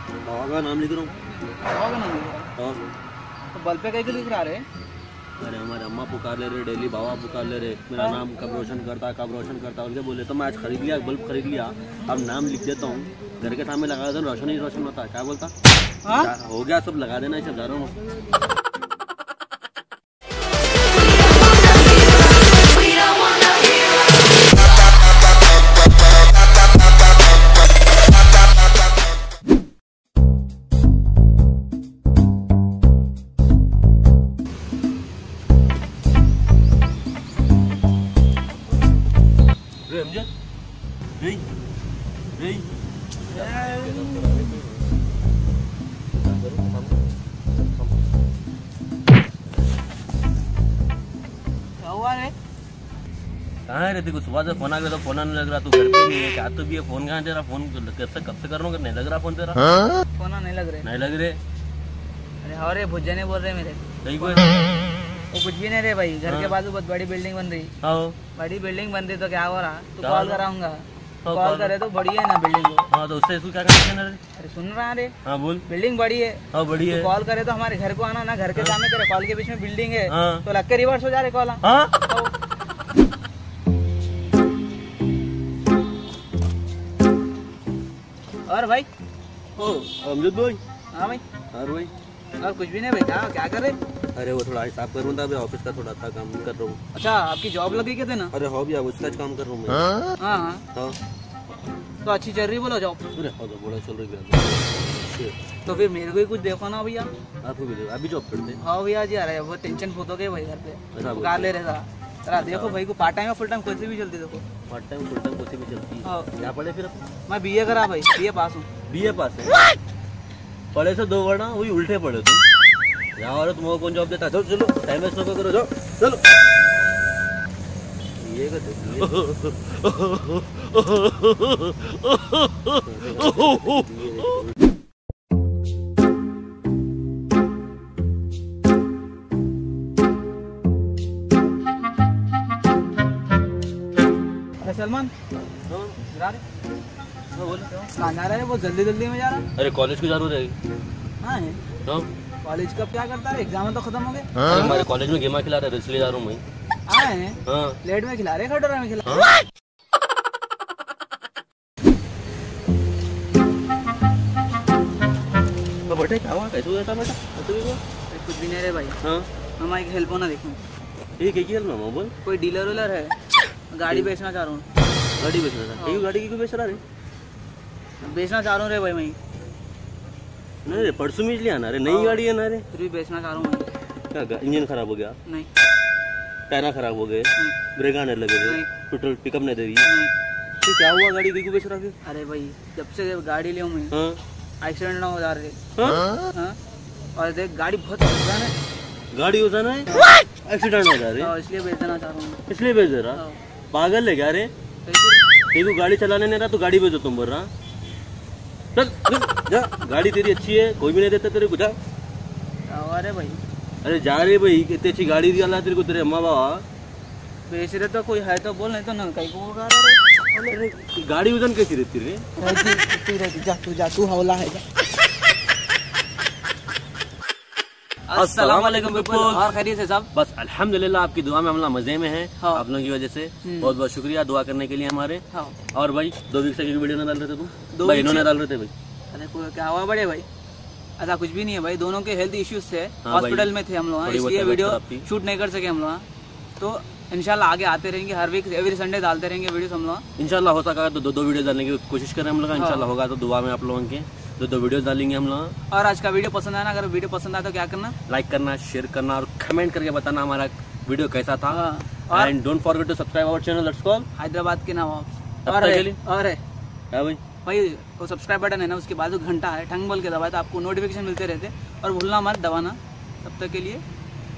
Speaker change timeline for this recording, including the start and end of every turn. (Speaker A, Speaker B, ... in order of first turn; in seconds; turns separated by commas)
Speaker A: 0.2-1.1, Speaker B: 1.5-2.5, Speaker B: 3.5-4.7, Speaker A: 5.4-15.5, Speaker B: 8.0-8.2, Speaker B: 16.0-16.3, Speaker A: 16.1-17.9, Speaker A: 39.9-40.3, Speaker A: 41.2-41.4, Speaker A: 42.4-42.7, Speaker B: 43.3-44.5, Speaker A: 43.3-44.7, Speaker A: 46.2-46.9, Speaker B: 51.8-52.3, Speaker A: 53.7-59.7, Speaker B: 60.2-60.9, Speaker A: 60.8-61.4, Speaker B: 62.4-64.7, Speaker A: 64.0-64.7, Speaker B: 65.3-67.7, Speaker A: 66.2-66.5, Speaker A: 67.8-68.2, Speaker B: 68.3-72.9, Speaker A: 70.0-70.4, Speaker A: 71.2-71.7, Speaker A: 72.9-74.2, Speaker B: 74.3-75.1, Speaker A: 75.2-75.6, Speaker B: 75.7-82.3, Speaker A: 76.5-77.1, Speaker A: 80.1-80.4, Speaker A: 81.6-81.9, Speaker B: 88.5-88.9, Speaker B: 89.6-89.8, Speaker A: 89.8-90.6, Speaker B: 90.9-91.2, Speaker A: 91.5-91.9, Speaker B: 92.4-93.8, Speaker A: 94.1-96.8, Speaker B: 96.9-98.3, Speaker A: 98.3-99.9, Speaker B: 100.2-100.6, Speaker B: 102.0-103.0, Speaker A: 103.1-105.3, Speaker B: 105.6-107.1, Speaker A: 107.4-108.6, Speaker B: 108.6-114.4, Speaker A: 110.9-111.5, Speaker A: 112.3-112.8, Speaker A: 114.7-117.1, Speaker B: 116.0-116.3, Speaker B: 117.3-118.7, Speaker A: 118.9-119.6, Speaker A: 120.7-122.4, Speaker A: 123.2-126.2, Speaker A: 128.2-134.5, Speaker B: 144.6-145.1, Speaker A: 145.7-146.0, Speaker B: 146.1-146.4, Speaker A: 147.3-147.7, Speaker B: 147.7-149.4, Speaker A: 149.6-150.6, Speaker B: 151.2-151.6, Speaker B: 152.4-154.4, Speaker A: 154.4-156.4, Speaker B: 156.9-159.3, Speaker A: 157.4-157.8, Speaker A: 165.9-167.8, Speaker B: 168.1-169.0, Speaker A: 169.0-169.3, Speaker B: 169.6-170.6, Speaker A: 171.2-172.1, Speaker B: 172.2-173.1, Speaker B: 173.7-174.6, Speaker A: 175.2-176.8, Speaker B: 175.8-176.0, Speaker B: 178.0-179.2, Speaker A: 180.6-182.7, Speaker B: 181.8-182.2, Speaker B: 182.7-183.7, Speaker A: 184.1-185.2, Speaker A: 186.5-189.8, Speaker B: 188.4-188.7, Speaker B: 189.8-190.1, Speaker A: 190.6-191.9, Speaker B: 192.0-193.9, Speaker A: 193.9-194.2, Speaker B: 194.6-195.6, Speaker A: 195.8-196.1, Speaker B: 196.3-196.6, Speaker B: 197.2-198.5, Speaker A: 199.1-201.3, Speaker B: 201.2-202.4, Speaker A: 202.5-204.5, Speaker B: 203.1-203.4, Speaker B: 204.8-205.2, Speaker A: 205.5-207.5, Speaker A: 208.7-211.8, Speaker B: 212.7-213.4, Speaker A: 213.8-216.6, Speaker B: 217.5-220.0, Speaker A: 220.3-222.3, Speaker B: 222.3-224.6, Speaker B: 228.1-230.1, Speaker A: 228.2-229.4, Speaker A: 230.1-235.2, Speaker B: 233.4-233.7, Speaker A: 235.7-238.7, Speaker B: 237.7-238.3, Speaker B: 239.1-240.3, Speaker B: 241.0-246.0, Speaker A: 243.0-243.5, Speaker A: 244.0-245.1, Speaker B: 246.6-250.0, Speaker A: 250.2-255.5, Speaker B: 252.5-252.9, Speaker B: 255.7-257.9, Speaker A: 258.1-264.1, Speaker B: 261.5-262.3, Speaker B: 264.1-266.4, Speaker A: 265.4-266.0, Speaker A: 266.9-267.2, Speaker B: 267.4-273.8